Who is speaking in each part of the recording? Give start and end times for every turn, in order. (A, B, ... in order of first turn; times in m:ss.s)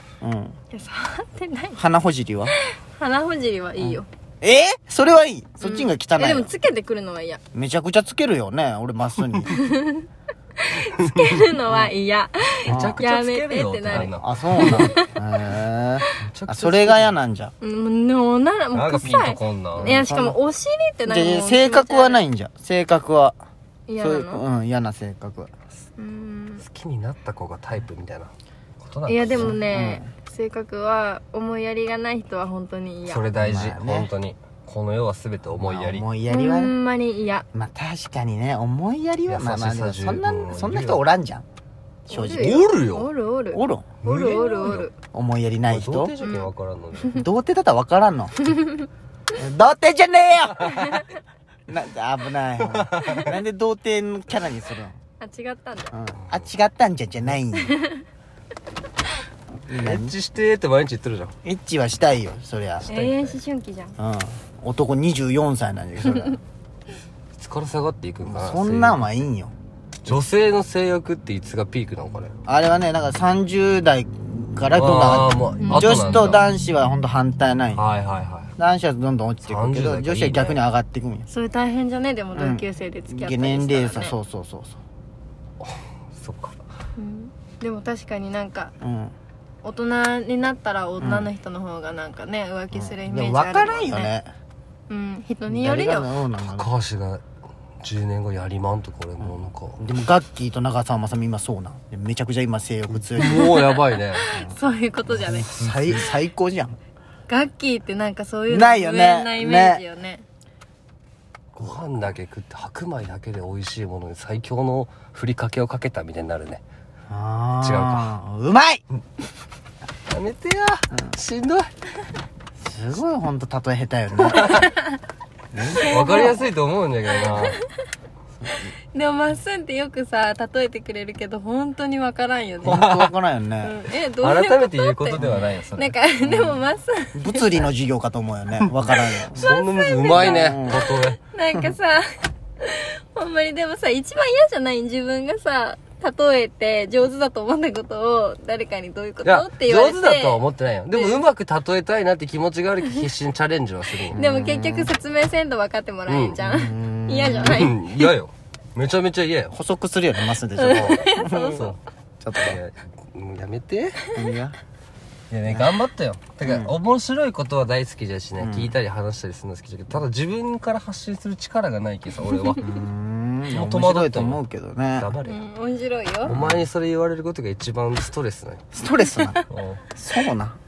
0:00.2-0:00.6 A
0:00.7-0:01.8 B
0:01.8-0:02.5 A
0:02.6-0:04.1 B
0:03.8-0:06.5 A
0:05.6-0:07.4 B
0:07.5-0:09.5 A
0:09.4-0:10.1 B
0:10.6-0:15.1 B
0:11.7-0:11.9 A
0:12.6-0:14.9 C
0:12.7-0:13.0 A
0:13.9-0:17.5 A
0:16.2-0:17.2 C
0:17.6-0:22.2 B
0:18.7-0:20.0 C
0:19.8-0:20.4 A
0:21.1-0:23.4 A
0:23.9-0:24.4 B
0:24.0-0:25.5 A
0:26.0-0:26.6 B
0:26.6-0:29.5 C
0:29.1-0:33.2 B
0:29.3-0:30.1 A
0:33.0-0:36.1 C
0:33.4-0:34.1 A
0:35.6-0:36.8 A
0:36.3-0:37.5 B
0:37.5-0:41.4 A
0:39.3-0:41.0 C
0:42.1-0:42.6 A
0:42.1-0:44.9 B
0:42.3-0:43.1 C
0:43.5-0:46.2 A
0:44.0-0:44.9 C
0:45.7-0:47.2 C
0:46.2-0:46.5 B
0:47.1-0:48.4 A
0:49.4-0:51.0 A
0:50.7-0:51.0 C
0:51.7-0:55.0 A
0:52.6-0:53.3 C
0:55.2-0:56.0 B
0:55.9-0:57.8 A
0:57.6-0:58.0 B
0:59.7-1:00.1 A
0:59.8-1:01.4 C
1:01.4-1:02.9 A
1:02.8-1:03.4 C
1:02.9-1:04.0 B
1:04.0-1:06.4 A
1:07.4-1:09.0 C
1:08.2-1:09.5 A
1:10.1-1:12.4 C
1:12.5-1:17.8 A
1:14.7-1:16.4 C
1:15.6-1:16.3 B
1:17.8-1:18.5 C
1:18.6-1:21.3 A
1:19.4-1:20.6 C
1:21.3-1:24.2 B
1:22.4-1:24.8 A
1:25.6-1:26.6 C
1:27.0-1:28.7 B
1:28.8-1:29.2 A
1:29.6-1:34.1 B
1:31.0-1:31.3 A
1:32.7-1:34.3 A
1:34.9-1:36.1 B
1:35.5-1:36.7 A
1:36.4-1:37.2 C
1:37.8-1:39.8 C
1:39.2-1:43.6 A
1:42.9-1:44.2 C
1:43.2-1:45.5 B
1:45.1-1:46.8 A
1:45.6-1:46.1 C
1:47.3-1:50.2 B
1:48.5-1:49.8 A
1:51.6-1:56.6 C
1:57.1-1:58.8 A
1:57.6-1:58.1 C
2:00.1-2:01.7 C
2:02.6-2:04.7 A
2:04.3-2:04.7 C
2:04.4-2:04.9 B
2:05.6-2:07.6 C
2:05.8-2:06.5 B
2:07.2-2:07.6 B
2:08.4-2:08.7 A
2:08.9-2:12.8 B
2:12.6-2:13.8 A
2:12.6-2:13.2 C
2:13.6-2:17.7 B
2:14.2-2:16.0 C
2:15.2-2:15.5 A
2:16.2-2:16.6 A
2:17.2-2:19.4 A
2:18.6-2:21.2 C
2:19.4-2:30.4 B
2:20.1-2:20.8 A
2:29.2-2:34.2 C
2:30.9-2:31.2 B
2:34.1-2:34.9 A
2:34.1-2:38.1 B
2:36.1-2:36.5 C
2:36.4-2:37.6 A
2:37.2-2:39.6 C
2:39.5-2:42.6 A
2:40.6-2:41.6 B
2:41.5-2:41.8 C
2:42.4-2:44.1 C
2:44.1-2:44.6 A
2:45.3-2:52.7 C
2:45.5-2:45.7 A
2:46.4-2:46.7 A
2:48.4-2:48.7 A
2:52.6-2:55.1 A
2:53.5-2:54.4 C
2:55.0-2:55.4 C
2:55.3-2:56.3 B
2:56.3-2:56.6 A
2:56.3-2:58.6 C
2:58.7-2:59.4 A
2:59.5-2:59.8 C
3:00.0-3:00.6 A